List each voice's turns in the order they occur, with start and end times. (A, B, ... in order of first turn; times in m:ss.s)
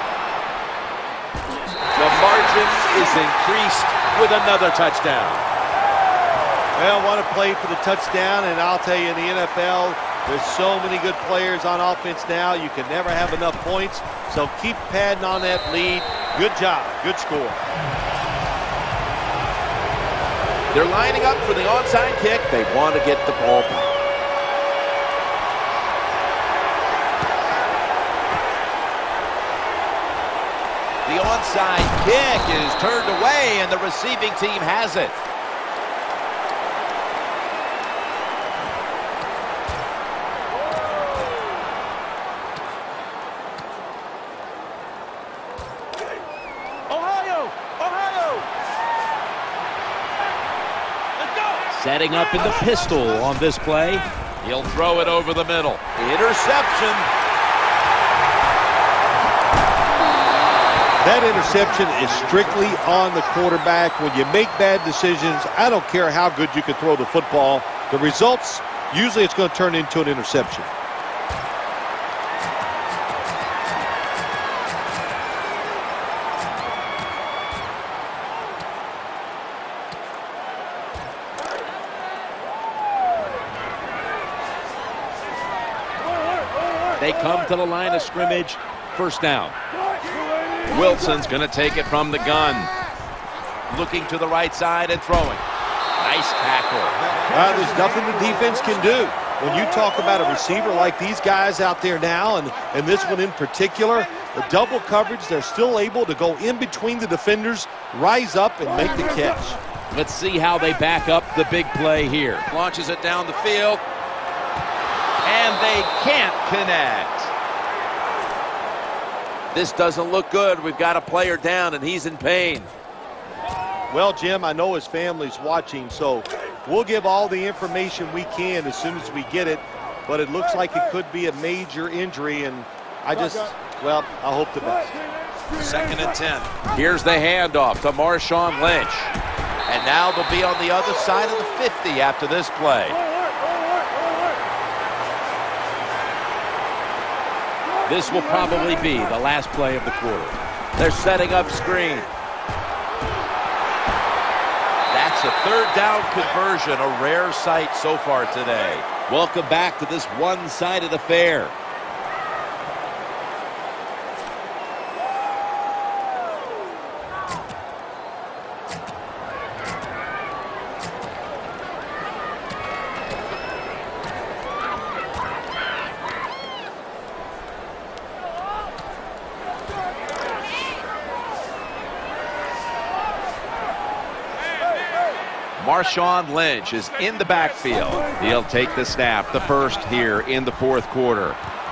0:01.9-0:05.4 A
0:06.8-0:17.6 B
0:20.7-0:24.0 A
0:31.0-0:35.1 A
0:51.7-0:57.1 A
1:01.0-1:10.7 B
1:27.0-1:29.5 A
1:30.7-1:32.7 A
1:33.7-1:35.4 A
1:36.0-1:37.0 A
1:37.3-1:49.6 B
1:49.9-1:53.8 A
1:55.2-1:57.3 A
1:59.5-2:02.7 A
2:03.9-2:15.0 B
2:15.6-2:19.1 A
2:19.7-2:23.0 A
2:27.8-2:32.1 A
2:34.9-2:41.5 A
3:05.6-3:11.4 A